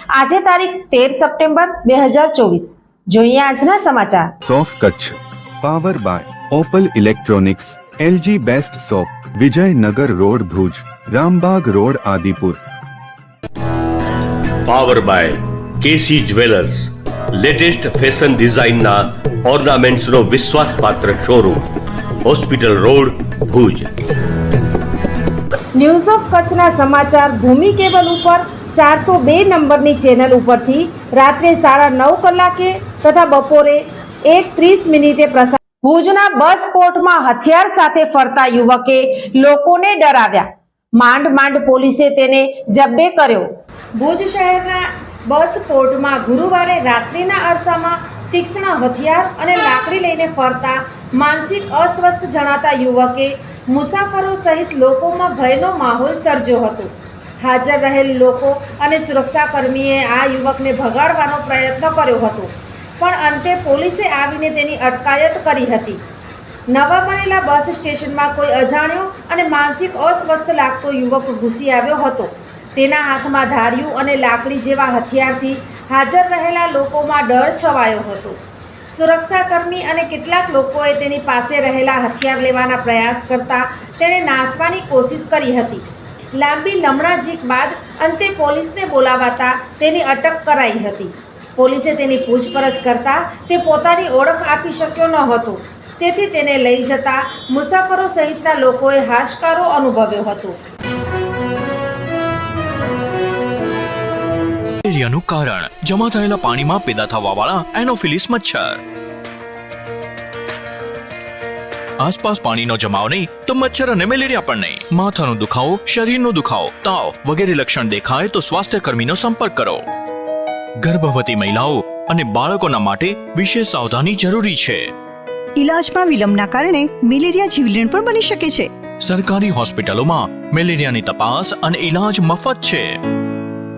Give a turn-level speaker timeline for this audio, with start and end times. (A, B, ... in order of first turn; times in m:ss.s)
0:00.1-0:04.3 A
0:04.4-0:12.6 B
0:14.6-0:21.7 C
0:22.2-0:23.9 C
0:25.7-1:06.0 A
1:06.7-1:40.6 A
1:44.8-1:48.8 D
1:52.0-1:59.8 D
2:00.8-2:04.9 D
2:05.6-2:08.7 E
2:09.0-2:13.0 D